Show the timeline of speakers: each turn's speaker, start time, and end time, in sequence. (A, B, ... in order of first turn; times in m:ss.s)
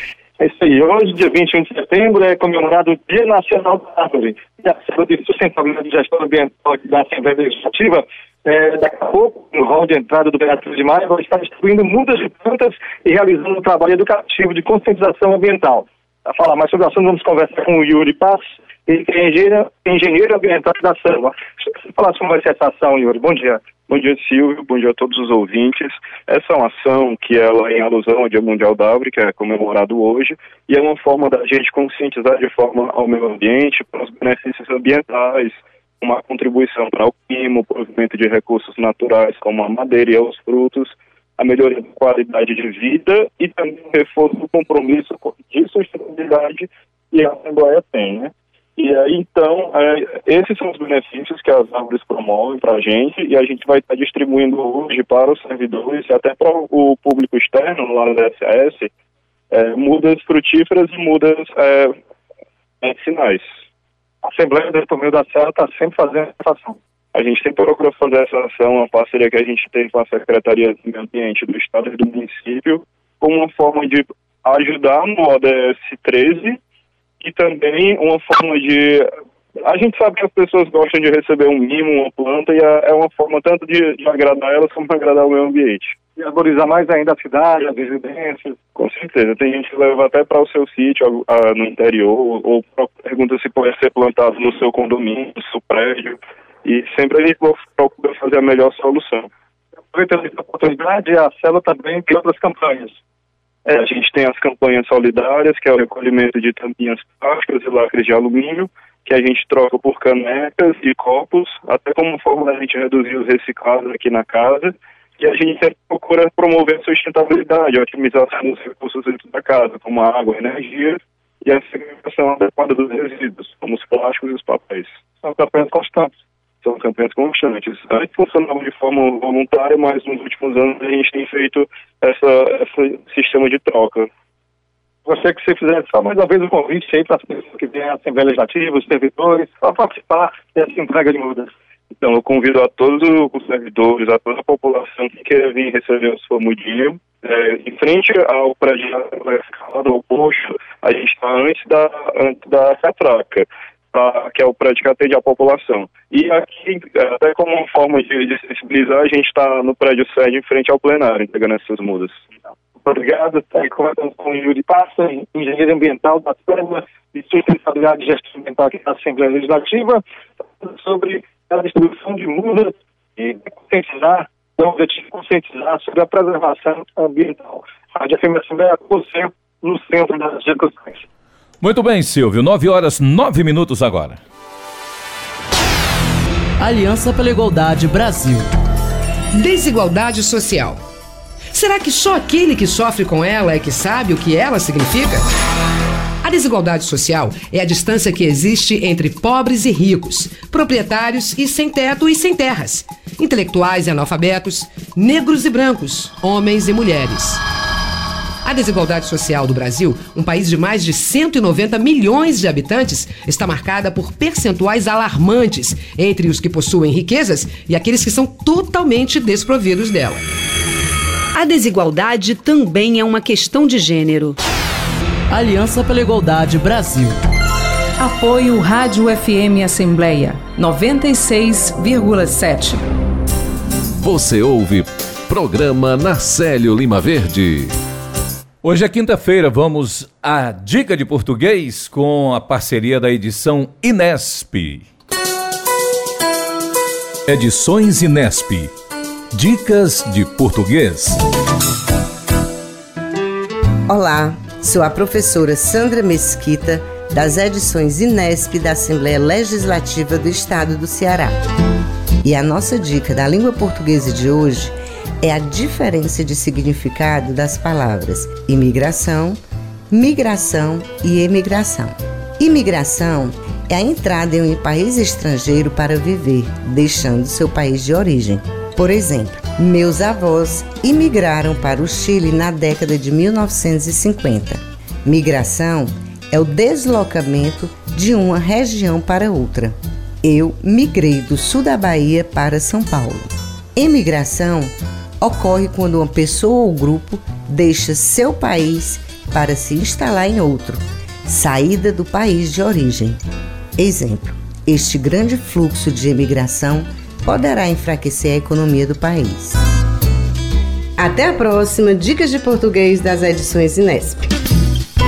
0:00.4-0:23.7 A
0:23.9-0:58.9 B
0:59.5-1:01.9 B
1:02.8-1:03.5 B
1:04.2-1:06.8 A
1:07.1-1:16.6 B
1:17.2-1:25.9 B
1:26.2-1:28.6 A
1:28.8-1:39.3 B
1:39.9-1:42.9 A
1:43.7-2:04.9 B
2:05.2-2:06.1 A
2:06.6-2:14.1 B
2:15.1-2:21.5 A
2:22.0-2:42.3 B
2:42.8-2:50.0 A
2:50.6-3:01.0 A
3:01.6-3:04.2 C
3:07.2-3:08.1 D
3:09.3-3:10.8 E
3:11.5-3:15.3 E
3:16.2-3:27.4 E
3:28.4-3:40.2 E
3:41.4-3:44.4 F
3:45.3-3:46.9 D
3:48.0-3:52.8 F
3:54.0-3:57.7 G
3:58.6-4:04.9 C
4:07.3-4:08.7 C
4:09.3-4:11.2 C
4:13.9-4:21.4 H
4:22.2-4:29.4 H
4:29.9-5:03.2 H
5:03.8-5:09.6 H
5:11.0-5:14.3 H